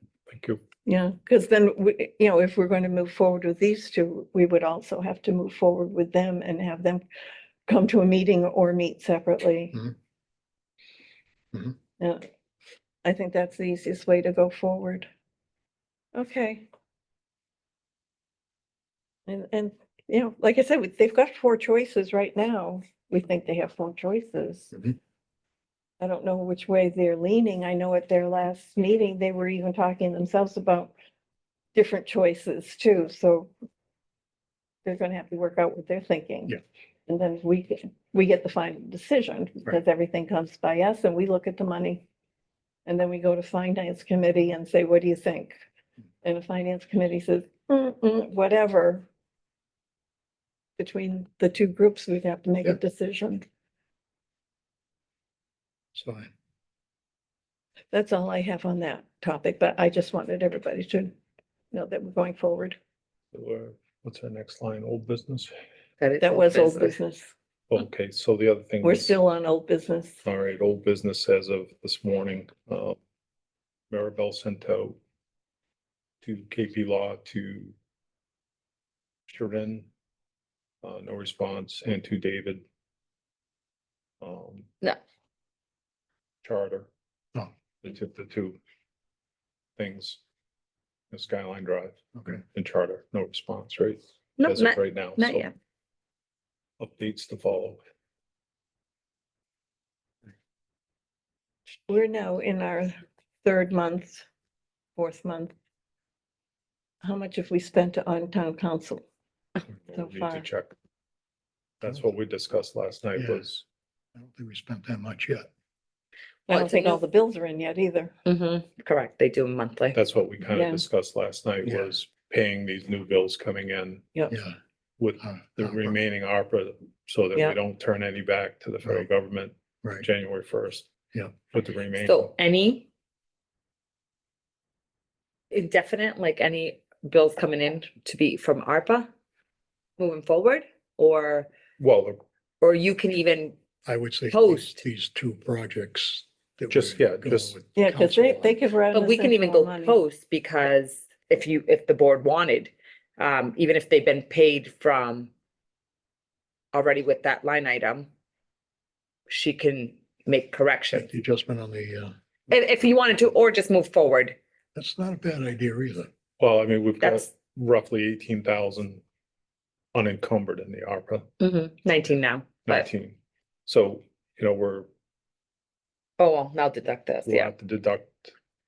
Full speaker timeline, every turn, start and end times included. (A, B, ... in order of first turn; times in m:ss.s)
0:00.3-0:00.6 A
0:00.8-0:07.0 B
0:07.7-0:09.8 B
0:12.0-0:12.2 B
0:13.0-0:15.1 B
0:16.1-0:16.6 B
0:19.3-0:24.8 B
0:26.0-0:30.9 B
0:31.7-0:33.5 B
0:34.8-0:42.0 B
0:42.8-0:45.6 B
0:46.2-0:49.1 B
0:50.8-0:53.4 B
0:55.9-0:56.3 C
0:57.9-1:01.1 B
1:01.7-1:02.8 B
1:03.3-1:05.5 A
1:06.0-1:07.0 D
1:06.2-1:07.3 B
1:07.7-1:09.2 A
1:08.8-1:10.2 B
1:10.2-1:13.0 A
1:13.9-1:15.0 A
1:16.2-1:17.7 A
1:19.3-1:19.9 A
1:20.8-1:22.6 A
1:24.2-1:24.7 A
1:26.4-1:26.9 A
1:27.8-1:28.6 A
1:29.8-1:30.2 A
1:31.1-1:35.5 A
1:32.2-1:32.4 C
1:34.4-1:35.5 D
1:36.8-1:37.8 A
1:41.9-1:44.2 B
1:45.0-1:45.5 B
1:47.0-1:49.0 B
1:49.6-1:50.7 A
1:49.9-1:50.4 B
1:51.8-1:53.6 A
1:53.2-1:53.5 C
1:54.1-1:55.5 C
1:56.5-1:57.0 D
1:56.5-1:58.1 B
1:58.2-2:00.0 D
1:59.9-2:04.1 A
2:00.5-2:00.8 B
2:04.3-2:04.6 C
2:05.0-2:12.3 A
2:05.2-2:06.0 C
2:12.0-2:12.8 D
2:15.5-2:19.1 D
2:20.0-2:21.5 D
2:21.8-2:22.2 A
2:22.6-2:23.6 D
2:23.8-2:28.6 C
2:24.3-2:24.8 D
2:26.7-2:27.6 A
2:27.8-2:30.0 B
2:28.9-2:35.3 D
2:36.7-2:38.1 D
2:39.3-2:41.1 D
2:40.9-2:42.1 C
2:42.5-2:44.4 D
2:44.7-2:46.1 C
2:46.4-2:49.0 A
2:47.0-2:47.3 D
2:49.9-2:51.3 A
2:51.4-2:52.9 D
2:52.7-2:54.9 A
2:56.2-2:57.5 D
2:57.2-2:58.3 A